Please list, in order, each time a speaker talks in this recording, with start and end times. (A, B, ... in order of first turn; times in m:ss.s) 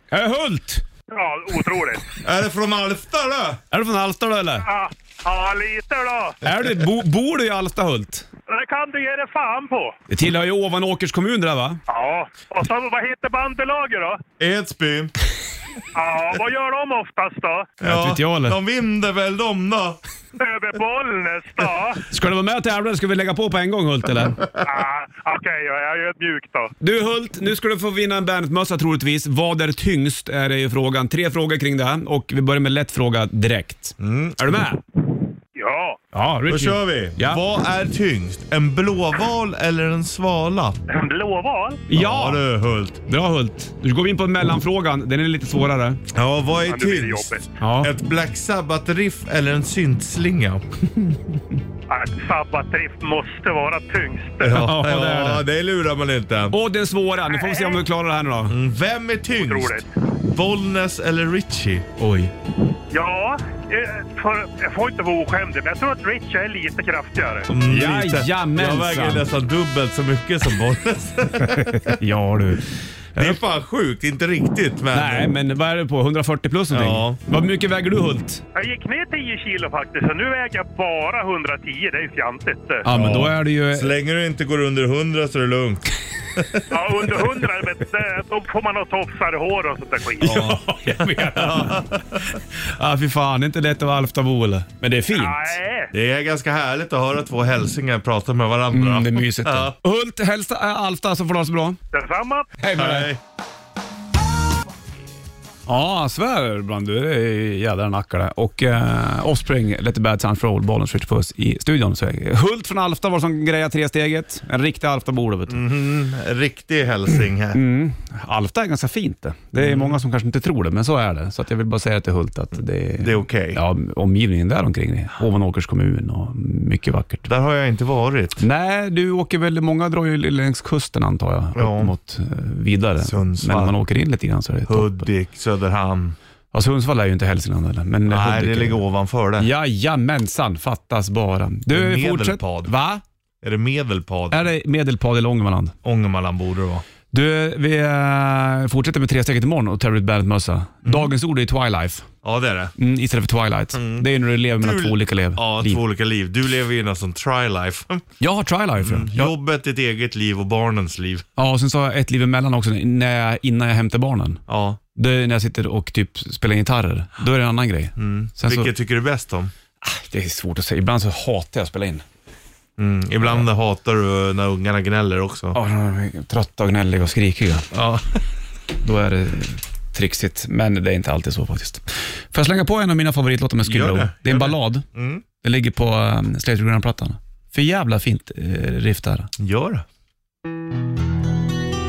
0:00.1-0:00.8 A
0:01.1-0:02.1 B
0:02.2-0:03.6 C
0:03.7-0:04.7 A
0:04.6-0:06.4 B
0:06.4-0:08.2 A
0:08.5-0:10.0 B
0:10.1-0:11.8 A
0:11.9-0:14.2 B
0:14.4-0:15.1 C
0:15.9-0:17.7 B
0:17.8-0:20.0 C
0:17.8-0:18.6 A
0:20.4-0:22.0 B
0:22.1-0:24.4 A
0:24.6-0:26.7 B
0:26.8-0:34.8 A
0:34.0-0:34.4 C
0:35.6-0:36.0 B
0:36.1-0:37.4 A
0:36.5-0:40.8 C
0:40.9-0:41.8 B
0:41.9-0:42.4 A
0:41.9-0:43.0 C
0:43.0-0:46.0 A
0:46.1-0:50.6 C
0:46.7-0:47.5 B
0:47.6-0:47.9 A
0:51.9-0:54.6 B
0:54.4-0:56.6 C
0:54.4-0:55.4 A
0:56.5-0:58.6 A
0:57.3-0:57.8 B
0:58.5-1:01.9 C
0:59.4-0:59.8 B
1:02.0-1:02.3 A
1:02.9-1:07.5 B
1:07.5-1:12.0 C
1:07.6-1:09.3 A
1:11.4-1:13.4 A
1:13.2-1:15.3 C
1:14.9-1:18.4 A
1:16.7-1:17.2 C
1:18.5-1:22.9 B
1:22.8-1:23.9 A
1:22.9-1:26.8 C
1:26.7-1:30.5 B
1:30.2-1:35.6 A
1:30.2-1:32.4 C
1:35.1-1:35.9 B
1:35.9-1:39.7 C
1:38.7-1:41.8 A
1:41.9-1:42.5 B
1:42.6-1:43.1 A
1:42.7-1:43.2 C
1:45.7-1:55.6 A
1:55.5-1:57.6 C
1:57.5-2:07.3 A
1:59.6-2:00.0 C
2:03.0-2:03.6 C
2:07.2-2:08.4 C
2:08.4-2:15.1 A
2:11.6-2:11.9 C
2:13.0-2:13.8 C
2:14.7-2:16.2 C
2:16.5-2:18.8 A
2:18.1-2:19.5 C
2:19.4-2:23.0 A
2:21.7-2:22.7 C
2:23.4-2:24.5 C
2:24.3-2:25.7 A
2:25.8-2:26.8 C
2:27.1-2:32.1 A
2:30.8-2:31.1 C
2:32.2-2:32.7 C
2:32.8-2:35.8 A
2:33.7-2:38.0 C
2:38.2-2:39.3 A
2:38.8-2:41.2 C
2:41.4-2:44.4 A
2:44.5-2:44.8 C
2:44.9-2:48.7 A
2:48.0-2:49.5 C
2:49.8-2:52.0 A
2:52.8-2:55.6 C
2:55.5-2:57.7 A
2:57.7-2:58.2 C
2:58.8-3:04.8 A
3:03.6-3:05.2 C
3:05.4-3:09.3 A
3:09.4-3:09.8 C